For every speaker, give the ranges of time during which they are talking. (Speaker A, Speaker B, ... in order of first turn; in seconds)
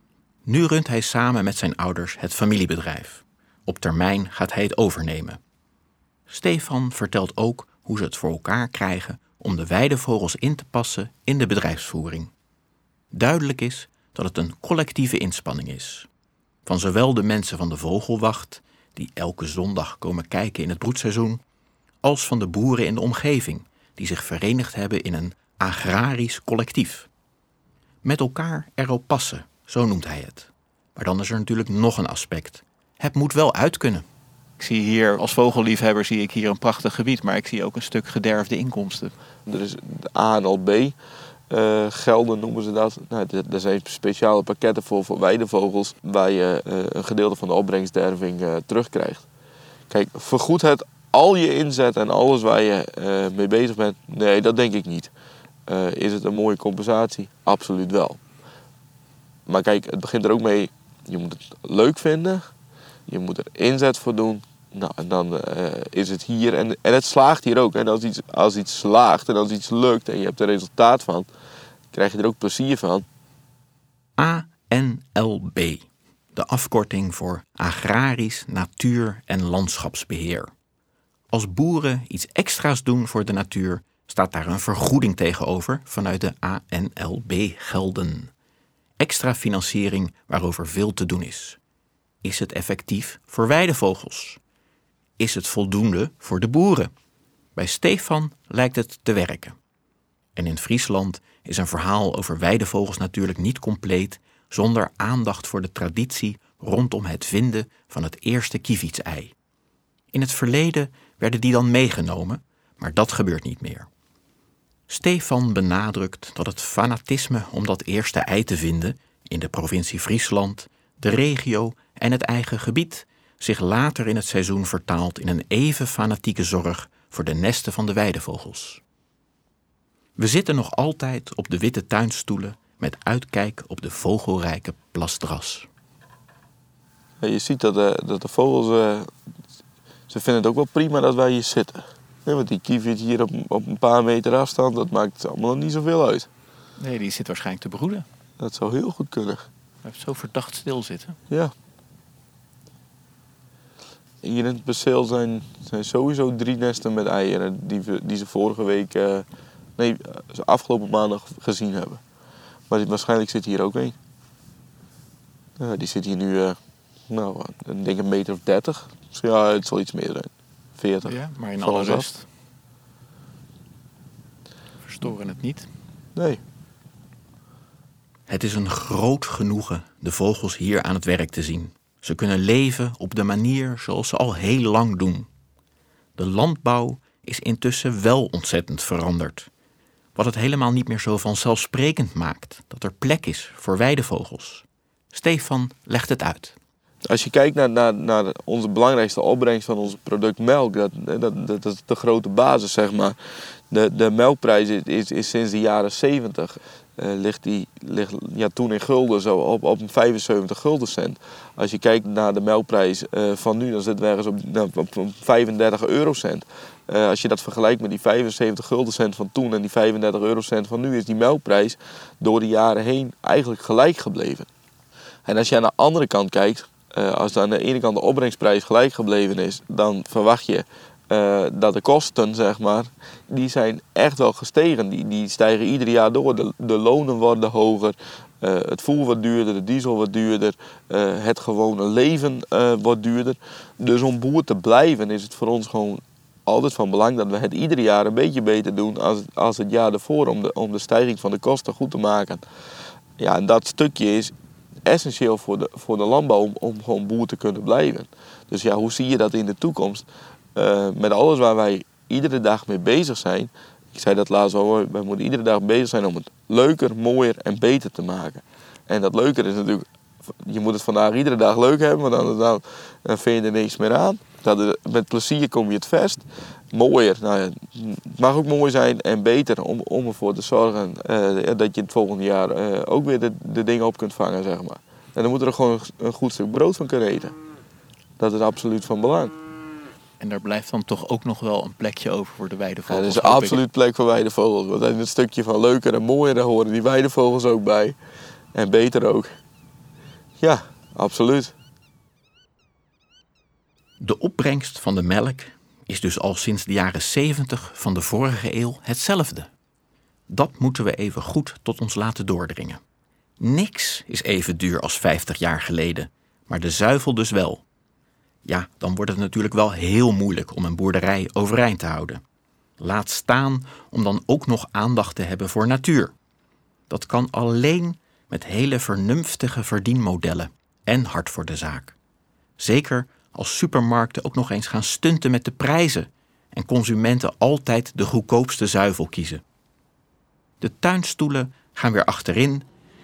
Speaker A: 0.4-5.4, 6.3-12.3, 13.1-16.1, 16.6-21.4, 22.0-27.1, 28.0-34.0, 74.2-80.5, 81.3-88.3, 89.0-91.6, 92.2-94.4, 95.2-96.9, 97.5-99.6, 100.4-109.3, 110.1-113.9, 114.9-128.8, 130.2-135.7, 178.3-185.3, 186.2-189.5, 190.1-196.6, 304.0-309.5, 310.3-312.8, 313.4-317.6, 318.4-322.2, 322.8-326.1, 326.9-331.9, 332.6-339.4, 340.6-342.6
Speaker B: 34.6-39.1, 146.8-148.1, 149.8-151.2, 171.0-172.2, 174.9-175.7, 290.2-293.6
Speaker C: 39.5-41.0, 41.5-49.2, 49.9-55.1, 55.7-58.2, 59.5-62.5, 63.1-71.3, 71.9-73.0, 137.2-139.1, 140.1-146.3, 148.4-149.4, 154.2-159.2, 159.8-162.0, 162.7-163.9, 165.6-166.6, 167.1-172.1, 176.1-176.4, 197.1-203.2, 203.7-224.5, 225.2-252.4, 253.2-254.3, 254.8-287.4, 288.2-289.4, 292.9-298.0, 298.5-299.3, 300.4-301.5